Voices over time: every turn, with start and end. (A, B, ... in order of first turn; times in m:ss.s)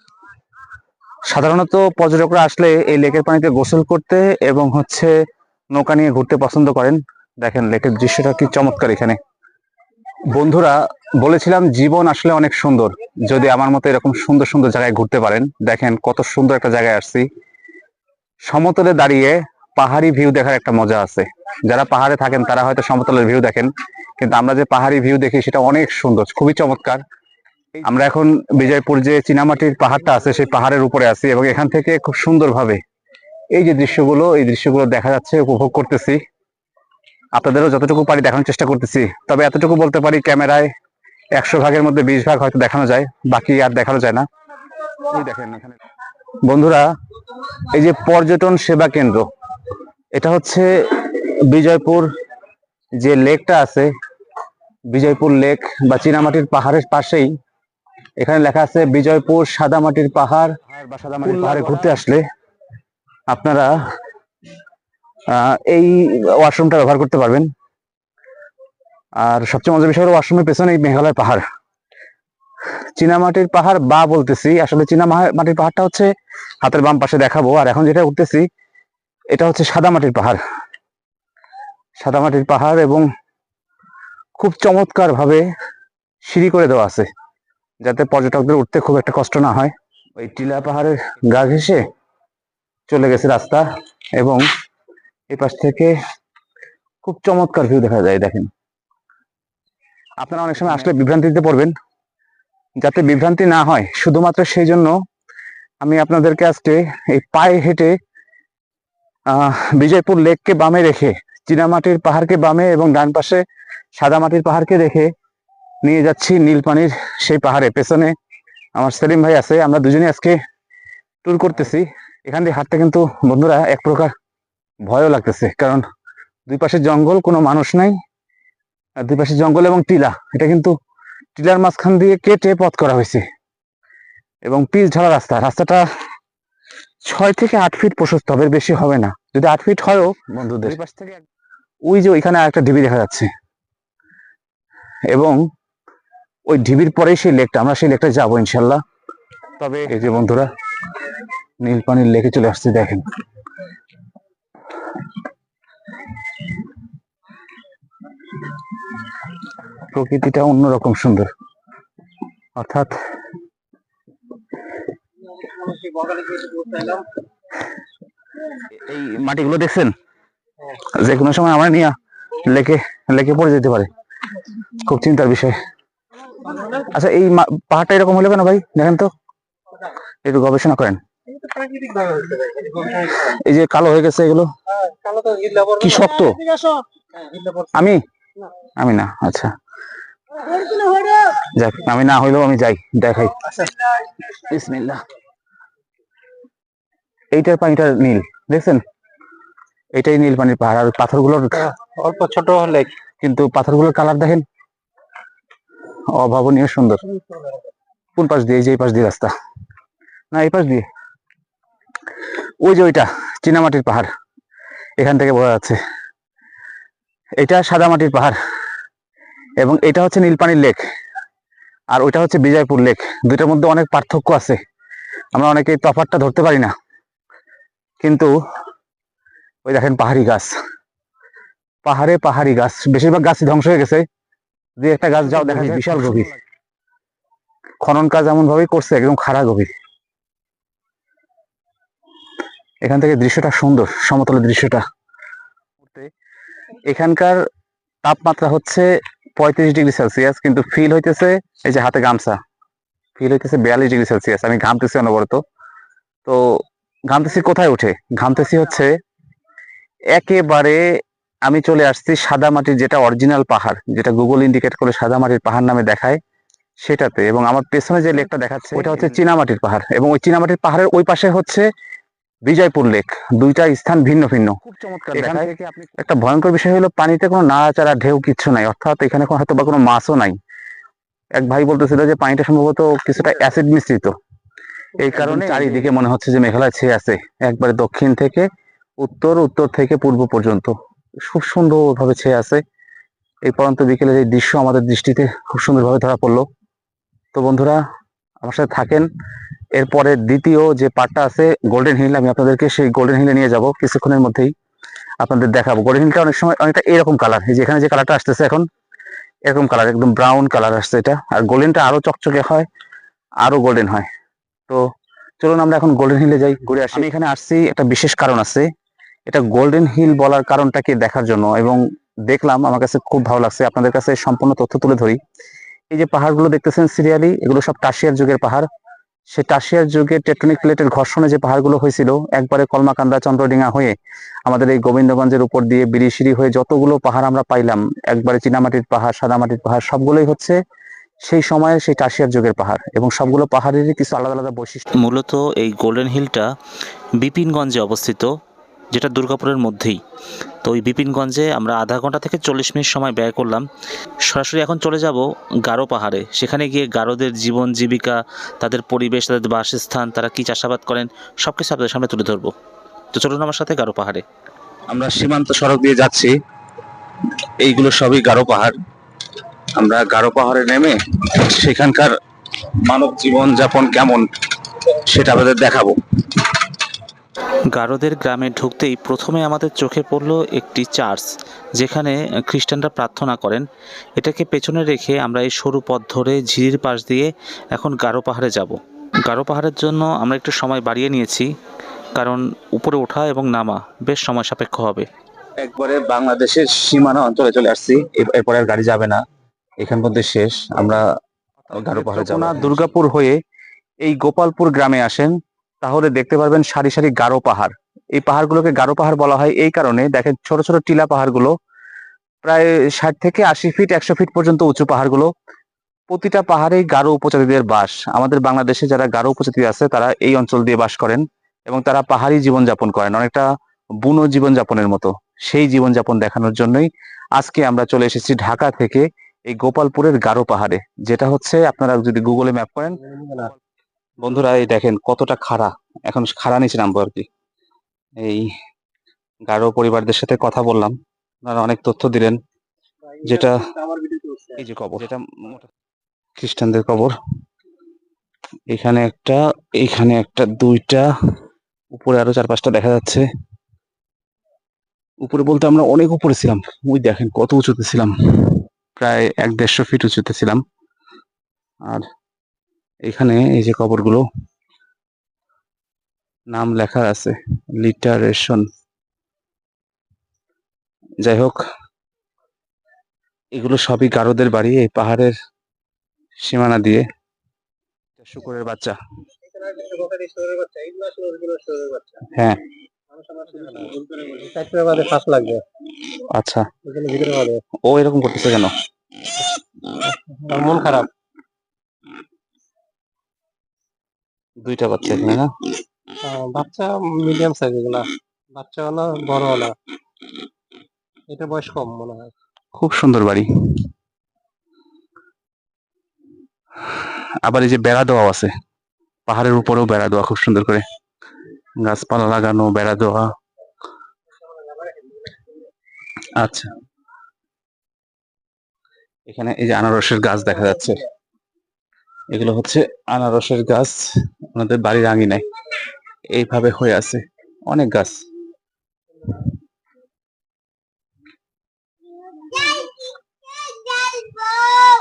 0:01.3-0:05.1 A
0:05.7-0:09.2 A
0:10.3-0:17.3 A
0:18.4-0:27.0 A
0:27.7-0:32.8 A
0:33.5-0:36.2 A
0:37.3-0:40.7 A
0:41.4-0:44.3 A
0:45.1-0:45.8 A
0:46.4-0:46.9 A
0:47.7-0:49.3 A
0:50.2-0:52.1 A
0:53.0-0:53.9 A
0:54.9-0:57.3 A
0:58.2-1:02.2 A
1:01.4-1:01.7 B
1:03.3-1:03.8 A
1:05.3-1:07.5 A
1:09.2-1:11.4 A
1:13.0-1:16.1 A
1:16.6-1:18.4 A
1:19.3-1:20.4 A
1:22.0-1:23.0 A
1:24.4-1:25.4 A
1:26.2-1:27.1 A
1:27.8-1:31.8 A
1:32.9-1:33.6 A
1:34.2-1:34.4 A
1:35.3-1:35.9 A
1:37.0-1:38.5 A
1:40.2-1:41.7 A
1:42.8-1:44.9 A
1:45.8-1:47.9 A
1:49.3-1:53.4 A
1:54.0-1:55.1 A
1:55.8-1:58.1 A
1:58.8-2:00.4 A
2:01.2-2:04.1 A
2:04.8-2:05.8 A
2:06.5-2:08.0 A
2:09.0-2:10.7 A
2:11.4-2:13.2 A
2:14.4-2:15.8 A
2:17.0-2:21.2 A
2:21.8-2:23.3 A
2:25.1-2:25.4 A
2:26.5-2:28.8 A
2:29.6-2:30.5 A
2:31.6-2:33.0 A
2:39.9-2:41.3 A
2:42.6-2:42.9 A
2:45.3-2:47.0 C
2:48.7-2:49.9 A
2:50.8-2:53.9 A
2:54.7-2:55.6 A
2:56.4-2:56.8 C
2:56.9-2:59.1 A
3:00.2-3:01.0 A
3:01.3-3:03.3 C
3:03.2-3:04.5 A
3:04.7-3:07.7 C
3:05.8-3:06.4 A
3:07.7-3:08.0 A
3:08.8-3:09.5 A
3:10.5-3:11.0 C
3:11.4-3:13.4 A
3:14.3-3:15.0 A
3:17.3-3:18.8 A
3:19.9-3:21.7 A
3:21.6-3:22.9 C
3:23.2-3:24.4 A
3:26.1-3:27.0 A
3:28.2-3:29.3 A
3:30.3-3:30.9 A
3:32.6-3:34.1 A
3:35.0-3:35.8 A
3:37.4-3:38.4 A
3:39.6-3:40.8 A
3:41.9-3:44.6 A
3:45.3-3:46.7 A
3:48.0-3:48.3 A
3:49.6-3:50.5 A
3:51.8-3:54.0 A
3:54.8-3:56.3 A
3:57.8-3:59.7 A
4:02.8-4:04.8 A
4:05.8-4:06.1 A
4:06.9-4:07.4 A
4:08.0-4:12.4 A
4:13.2-4:15.4 A
4:16.2-4:18.9 A
4:20.1-4:26.2 A
4:26.8-4:31.7 A
4:32.4-4:40.4 A
4:41.3-4:44.2 A
4:45.0-4:48.5 A
4:45.1-4:45.9 C
4:49.0-4:52.6 A
4:53.4-4:56.5 A
4:57.3-4:57.8 A
4:58.4-4:59.1 A
4:59.7-5:04.5 A
5:05.2-5:08.7 A
5:09.5-5:12.7 A
5:13.4-5:14.1 A
5:15.4-5:18.7 A
5:19.3-5:25.2 A
5:25.9-5:28.7 A
5:29.3-5:40.6 A
5:41.2-5:44.9 A
5:45.0-5:46.5 B
5:47.2-5:48.3 B
5:48.9-5:50.0 B
5:50.6-5:53.6 B
5:54.3-6:02.5 B
6:03.1-6:04.2 B
6:04.9-6:06.3 A
6:07.6-6:08.7 A
6:09.8-6:12.1 A
6:12.7-6:14.3 A
6:15.0-6:16.5 A
6:17.7-6:23.6 B
6:24.2-6:31.5 B
6:32.2-6:35.1 B
6:35.6-6:39.2 A
6:39.8-6:41.0 A
6:41.7-6:43.4 A
6:41.8-6:42.7 B
6:44.0-6:51.6 A
6:52.4-6:55.3 A
6:56.1-7:03.5 A
7:04.0-7:13.0 A
7:13.0-7:13.5 C
7:14.2-7:17.3 A
7:18.2-7:18.5 A
7:19.5-7:22.4 A
7:23.1-7:24.6 C
7:23.2-7:23.6 A
7:24.6-7:25.7 A
7:26.4-7:27.1 A
7:28.7-7:31.1 A
7:31.9-7:33.2 A
7:35.2-7:40.6 A
7:43.0-7:44.2 A
7:46.5-7:48.6 A
7:51.2-7:51.6 A
7:53.5-7:55.3 A
7:56.4-7:57.1 A
7:58.2-7:59.0 A
7:59.5-8:02.3 C
8:02.3-8:02.6 A
8:03.1-8:05.6 C
8:06.3-8:06.7 A
8:06.8-8:07.6 C
8:07.8-8:08.7 A
8:09.4-8:11.1 C
8:14.6-8:15.5 A
8:16.2-8:19.8 C
8:21.3-8:22.3 C
8:22.7-8:23.9 A
8:26.8-8:28.5 A
8:29.3-8:30.8 A
8:31.8-8:33.3 A
8:36.4-8:36.7 A
8:39.3-8:41.0 A
8:42.3-8:44.0 A
8:44.5-8:45.4 A
8:46.3-8:48.2 A